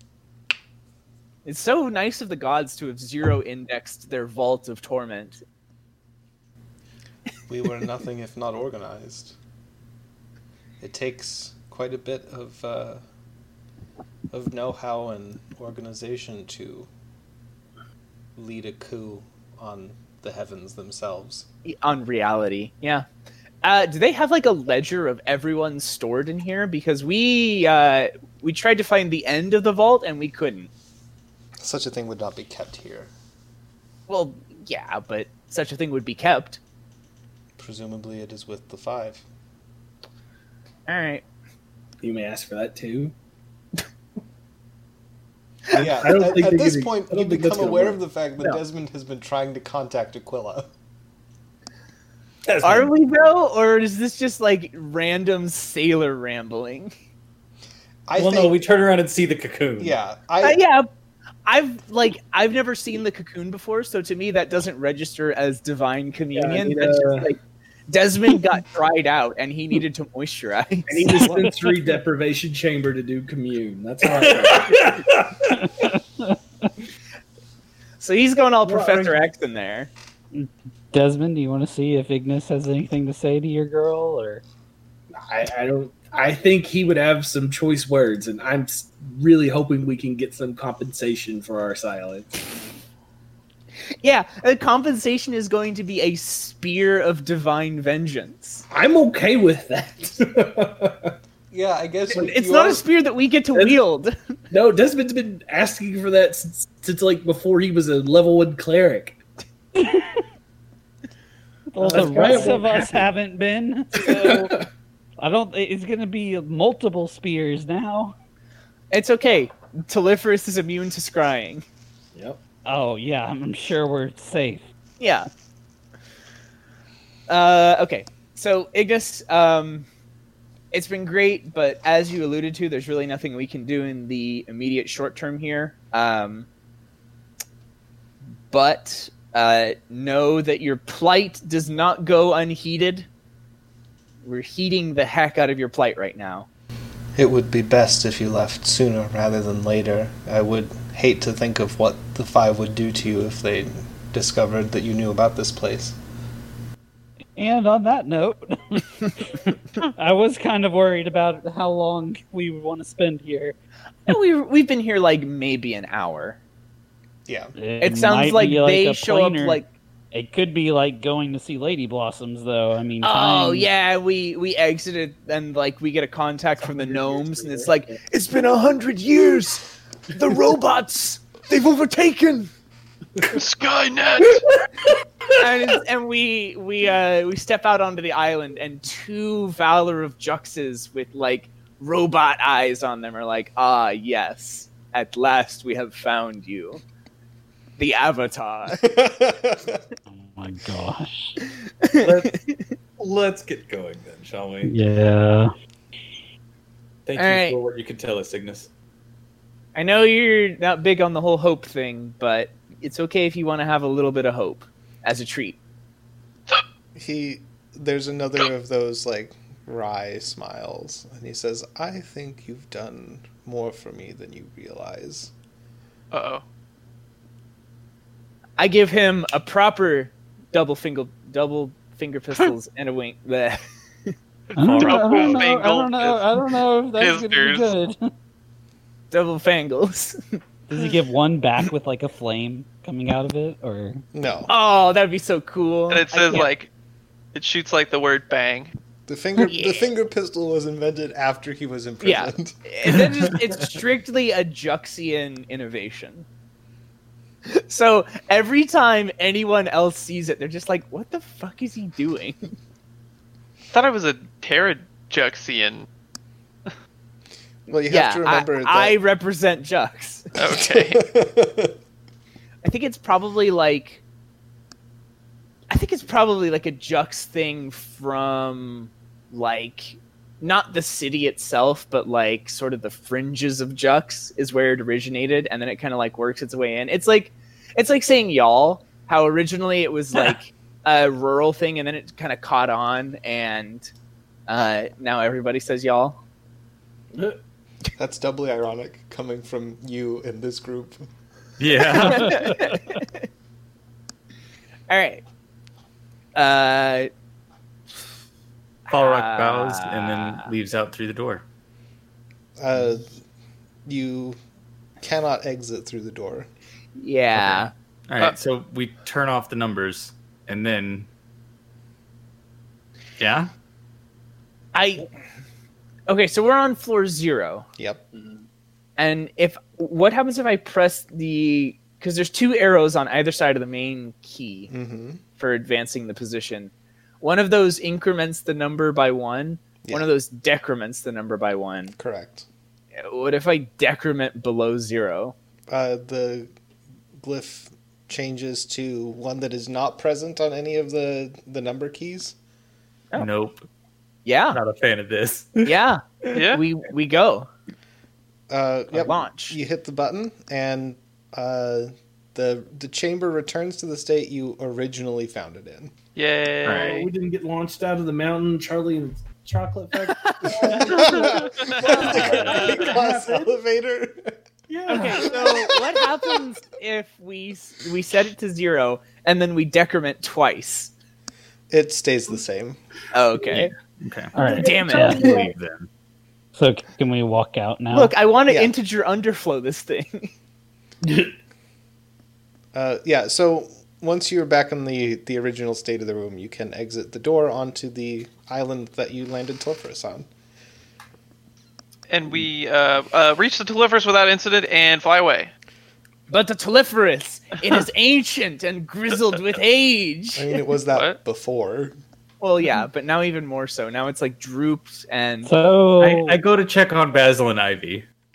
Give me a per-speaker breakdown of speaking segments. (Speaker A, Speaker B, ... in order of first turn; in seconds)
Speaker A: 1.4-5.4, 21.6-23.1, 23.6-30.7, 34.1-36.6, 40.9-41.2, 52.6-56.9, 60.4-60.9, 61.5-71.3, 78.0-79.9, 94.0-98.7, 102.1-104.3, 111.9-112.6, 118.9-121.6, 125.0-125.3, 127.3-129.9, 130.7-136.5, 138.5-143.1, 144.2-146.5, 164.1-166.4, 167.8-169.7, 173.0-182.5, 185.3-196.8, 197.8-198.9, 201.8-202.7, 207.2-207.6, 209.7-215.6, 228.6-234.1, 239.1-240.4, 244.5-246.5, 249.4-249.9, 252.0-256.2, 257.4-262.4, 267.9-270.3, 272.6-274.0, 275.7-293.9, 294.5-296.2, 301.9-303.2, 304.9-305.2, 306.3-307.1, 308.9-310.5, 317.0-317.7, 324.7-325.1, 326.1-327.7, 329.0-334.7, 335.4-341.9, 342.9-345.3, 354.2-354.6, 355.6-357.5, 358.9-359.6, 370.2-370.7, 374.9-380.9, 383.1-383.7, 384.5-385.4, 387.9-390.3, 406.3-410.6, 412.4-415.5
Speaker B: 7.5-9.3, 10.8-13.0, 14.3-16.9, 18.4-21.4, 31.6-33.1, 37.6-39.2, 45.7-50.7, 58.1-58.6, 59.8-60.6, 101.5-102.8, 147.2-156.0, 167.3-167.5, 198.8-199.8, 216.9-225.3, 244.1-244.5, 249.1-252.6, 267.7-269.0, 270.5-271.8, 297.9-301.1, 312.6-313.2, 313.9-314.4, 315.0-316.5, 327.8-328.0, 334.7-335.2, 342.0-342.4, 345.7-346.5, 347.2-352.4, 358.5-365.9, 370.4-374.4, 375.1-375.9, 381.7-382.8, 388.5-388.7, 392.7-400.3, 410.3-412.0
Speaker C: 42.0-43.1, 45.7-48.0, 66.3-67.3, 70.9-74.9, 78.6-79.2, 85.1-92.3, 98.7-101.1, 104.5-109.2, 111.8-113.0, 114.0-114.6, 176.6-177.7, 297.1-297.4, 328.1-328.4, 366.7-373.5, 374.7-375.8, 384.4-385.5, 391.0-391.3
Speaker D: 58.1-60.0, 74.1-75.7, 202.0-202.3, 203.0-204.8, 207.1-208.7, 234.6-235.5, 301.6-302.7, 308.9-311.4, 317.4-321.1, 323.2-323.5, 353.1-353.6, 354.5-356.4, 366.6-367.0, 372.1-372.7, 383.5-384.4, 385.2-385.9, 416.0-418.1
Speaker E: 75.6-76.7, 80.3-84.4, 109.8-110.2, 111.7-114.6, 115.2-118.1, 122.7-124.6, 157.3-163.6, 167.6-173.7, 200.1-201.3, 204.6-205.5, 234.6-238.1, 240.7-244.0, 302.0-303.0, 384.3-385.3, 386.5-388.1, 415.4-416.4
Speaker F: 183.3-184.5, 226.1-226.4, 234.7-237.7, 245.9-246.7, 247.3-248.7, 263.7-265.9, 270.3-271.0, 356.3-356.6, 366.1-367.1, 371.0-371.9, 372.4-372.9, 402.1-405.5, 410.9-411.2